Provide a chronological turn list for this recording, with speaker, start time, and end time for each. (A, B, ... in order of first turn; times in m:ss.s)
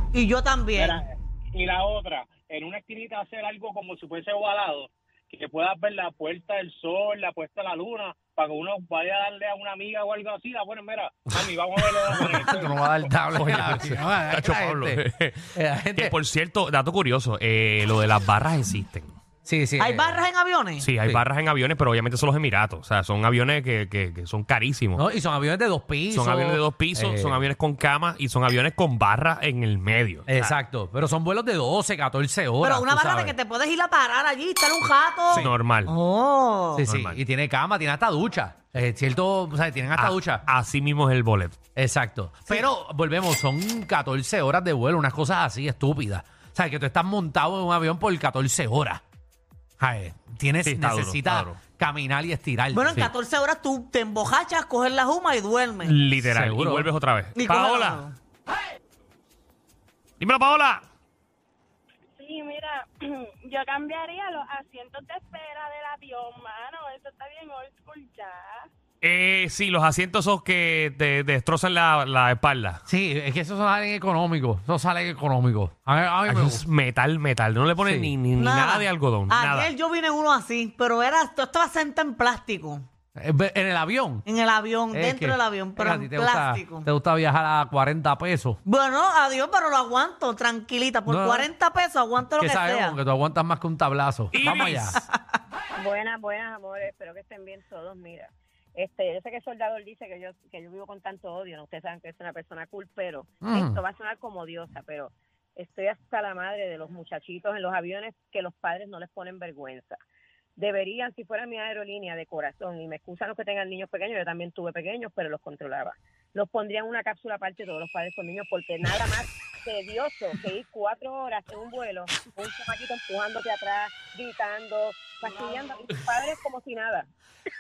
0:00.1-0:01.0 A
0:00.8-0:13.1 B
0:12.0-0:16.2 C
0:13.3-0:19.2 D
0:19.4-0:20.2 C
0:19.8-0:20.9 A
0:20.8-0:25.0 D
0:25.0-0:27.5 C
0:26.1-0:30.5 D
0:30.3-0:33.4 C
0:32.6-0:36.8 A
0:35.3-0:35.9 D
0:36.8-0:40.4 C
0:36.8-0:37.2 D
0:40.0-0:41.6 D
0:41.8-0:49.0 C
0:49.8-0:53.1 C
0:50.6-0:51.6 D
0:52.7-0:56.0 A
0:55.8-0:58.1 D
0:56.2-0:56.9 C
0:57.4-0:58.1 A
1:00.2-1:00.8 D
1:02.2-1:08.7 E
1:09.0-1:12.8 D
1:12.9-1:16.6 C
1:16.3-1:19.7 D
1:17.8-1:18.1 C
1:18.4-1:22.9 A
1:23.2-1:24.2 C
1:24.3-1:26.9 A
1:24.9-1:28.6 C
1:28.7-1:33.0 A
1:31.1-1:31.5 C
1:32.2-1:35.0 C
1:34.3-1:35.0 D
1:35.8-1:50.0 F
1:43.4-1:43.8 C
1:50.6-2:07.1 F